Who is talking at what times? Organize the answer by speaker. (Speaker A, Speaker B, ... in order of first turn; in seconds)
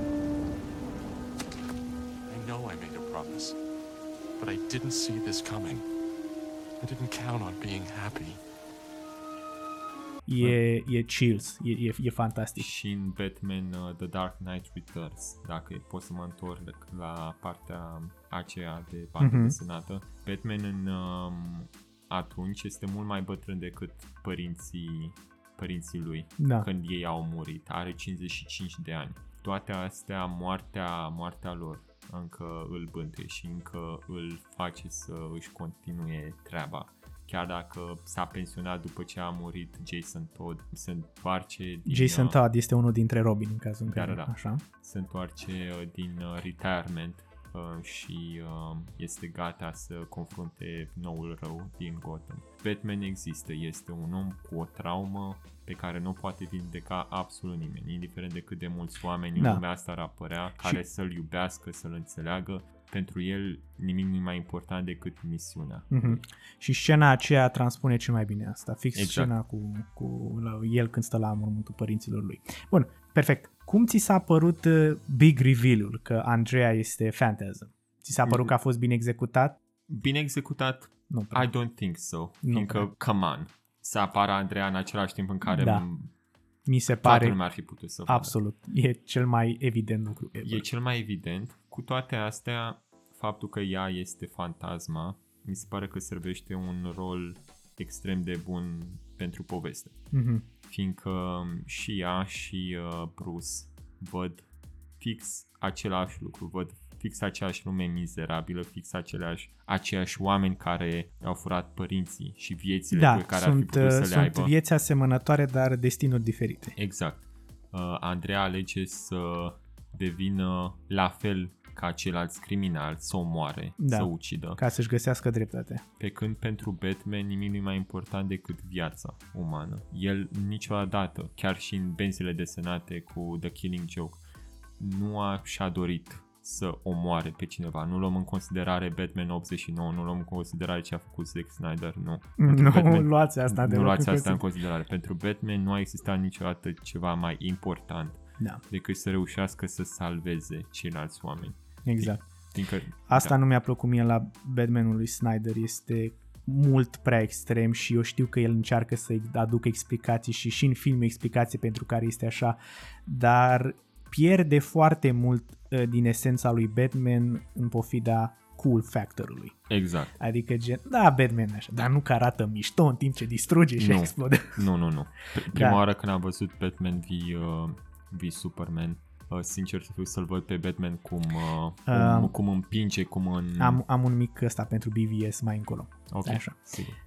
Speaker A: 2.3-3.6, 4.4-5.9, 6.8-8.4
Speaker B: 10.3-12.7, 19.2-19.6, 26.4-26.7, 41.9-44.6, 65.9-79.6, 81.1-81.5, 82.4-82.9, 85.5-85.8, 86.7-87.4, 88.1-90.7, 100.1-100.5, 112.9-116.8, 123.8-125.8, 142.4-144.4, 151.8-152.2, 153.1-169.6, 170.2-174.7, 175.5-175.8, 181.9-182.3, 183.6-186.6
Speaker C: 12.6-42.4, 43.9-66.2, 69.0-69.3, 78.2-78.5, 79.9-86.1, 87.0-88.4, 90.4-100.0, 100.7-104.5, 105.0-114.5, 116.8-124.6, 126.0-134.2, 134.8-153.3, 169.7-170.2, 173.8-183.8, 186.1-187.0